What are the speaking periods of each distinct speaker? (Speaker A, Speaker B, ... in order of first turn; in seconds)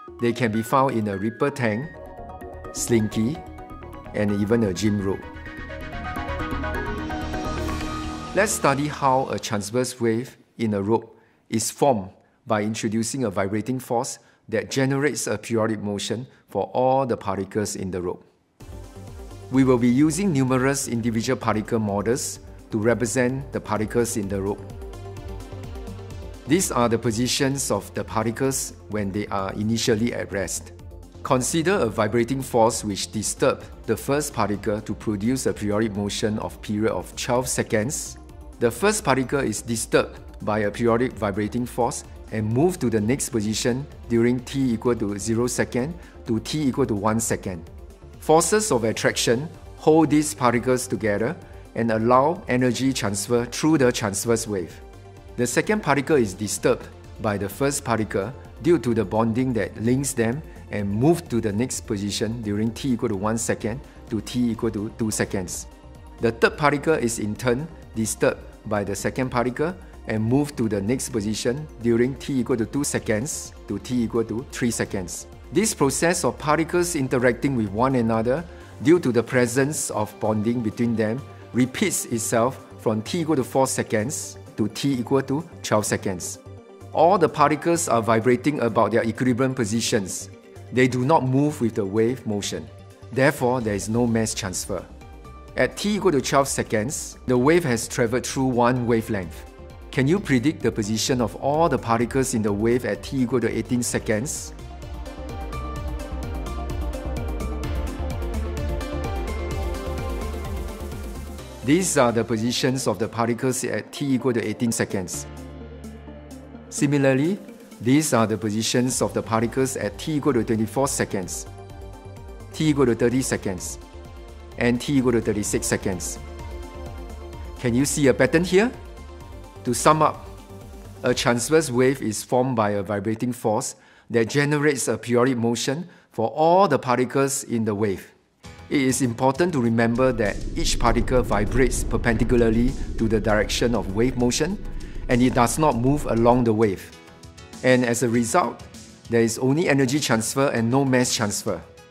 Speaker A: 0.2-1.9, 2.7-3.4, 4.1-5.3, 8.3-18.2, 19.5-24.7, 26.5-30.7, 31.2-47.7, 48.2-54.8, 55.4-65.7, 66.2-86.4, 86.9-94.9, 95.5-104.5, 111.6-115.3, 116.7-121.5, 122.5-123.8, 124.6-126.2, 127.6-128.7, 129.6-130.3, 131.0-138.1, 138.7-146.9, 147.6-151.7